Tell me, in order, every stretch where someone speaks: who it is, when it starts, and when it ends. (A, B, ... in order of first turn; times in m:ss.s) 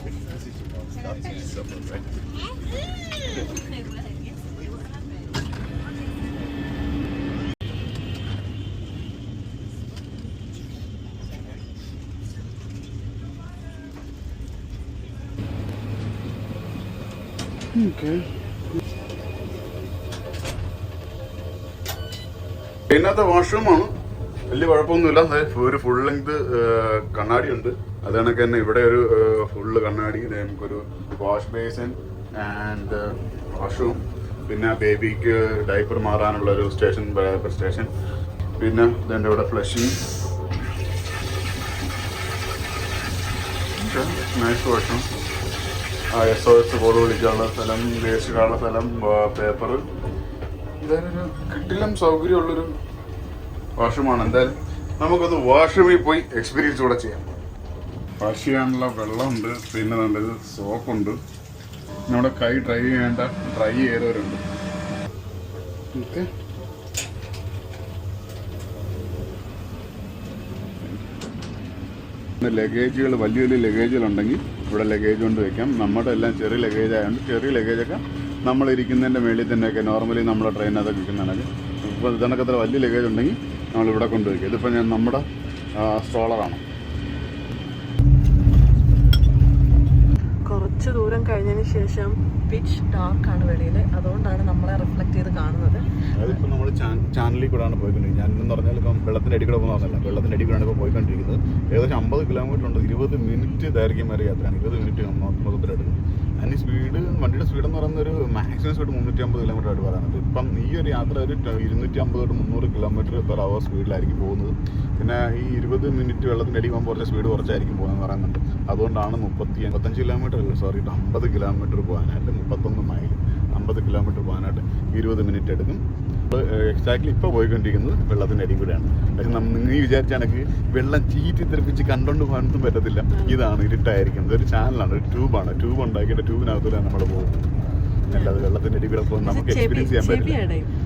0:01.2-0:02.0 A
0:17.7-0:18.3 A
0:22.9-0:23.9 A
0:24.5-0:37.9 A
0:38.6-0:40.0 A
0:43.8-0:45.1 A
0:46.1-0:49.8 A
0:50.8-0:52.7 A
0:53.8-0:57.2 A
0:58.2-1:01.2 A
1:02.1-1:04.4 A
1:05.9-1:06.3 A
1:12.4-1:25.2 A
1:25.8-1:26.6 A
1:30.5-1:35.9 B
1:36.2-2:17.4 A
2:13.1-2:13.4 B
2:18.1-2:18.5 B
2:18.1-2:20.4 A
2:19.2-2:20.7 B